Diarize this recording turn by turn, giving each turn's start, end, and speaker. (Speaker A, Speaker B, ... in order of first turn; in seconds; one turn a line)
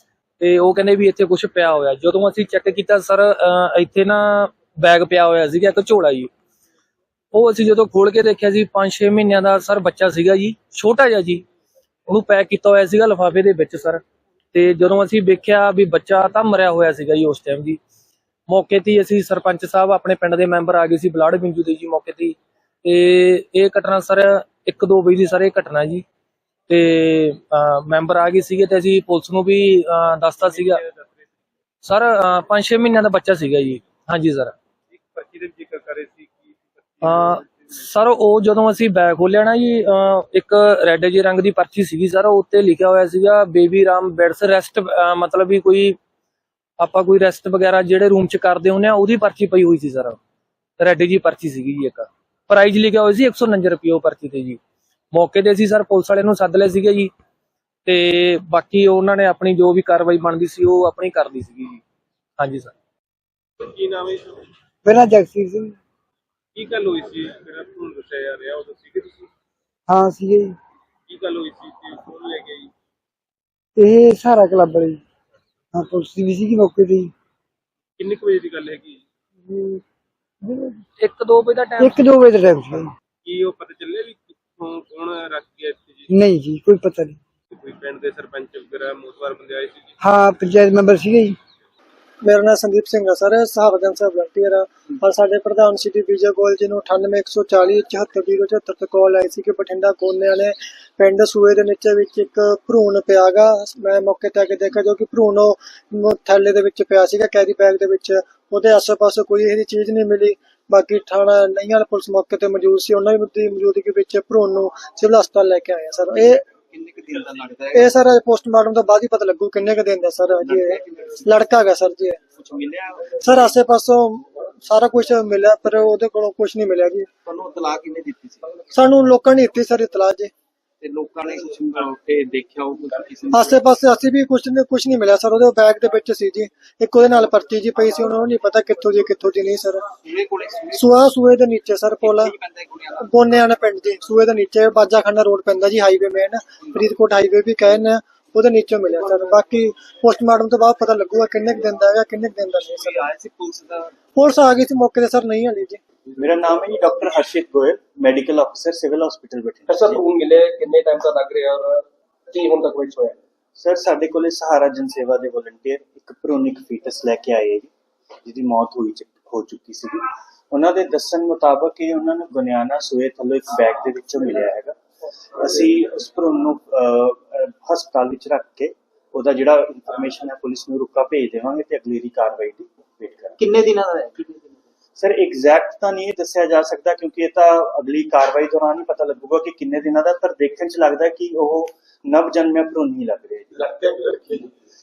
Speaker A: 0.4-6.3
Speaker A: 7.3-11.4
Speaker A: 12.1-14.0
Speaker A: 14.5-17.8
Speaker A: 18.5-26.1
Speaker A: 26.7-30.8
Speaker B: 30.4-31.3
Speaker A: 31.8-34.5
Speaker B: 34.9-37.7
Speaker A: 37.0-46.0
Speaker A: 46.8-50.2
Speaker A: 50.8-54.6
Speaker A: 55.1-57.1
Speaker A: 57.9-61.8
Speaker A: 62.4-62.7
Speaker B: 63.6-64.5
Speaker C: 64.8-65.8
Speaker B: 66.5-69.3
Speaker C: 69.9-70.6
Speaker B: 71.1-72.7
Speaker C: 73.8-75.0
Speaker C: 75.7-77.1
Speaker B: 78.0-79.0
Speaker C: 79.5-79.8
Speaker C: 80.4-80.8
Speaker A: 81.0-82.0
Speaker C: 81.8-82.9
Speaker B: 83.2-86.1
Speaker C: 86.1-87.2
Speaker B: 87.5-89.9
Speaker C: 90.0-91.4
Speaker D: 92.2-116.4
Speaker E: 116.7-117.9
Speaker D: 117.7-122.2
Speaker E: 120.5-121.2
Speaker E: 122.4-123.3
Speaker D: 123.2-127.1
Speaker E: 127.3-128.6
Speaker D: 128.7-130.3
Speaker E: 130.8-133.6
Speaker D: 133.3-139.9
Speaker E: 140.1-140.9
Speaker D: 140.7-142.4
Speaker E: 142.0-143.0
Speaker D: 142.9-153.0
Speaker E: 152.8-153.9
Speaker D: 154.2-155.8
Speaker F: 156.2-160.0
Speaker A: 159.7-161.8
Speaker A: 162.3-163.1
Speaker F: 163.6-167.7
Speaker F: 168.2-174.8
Speaker F: 175.3-183.4
Speaker E: 183.4-184.4
Speaker F: 185.0-194.5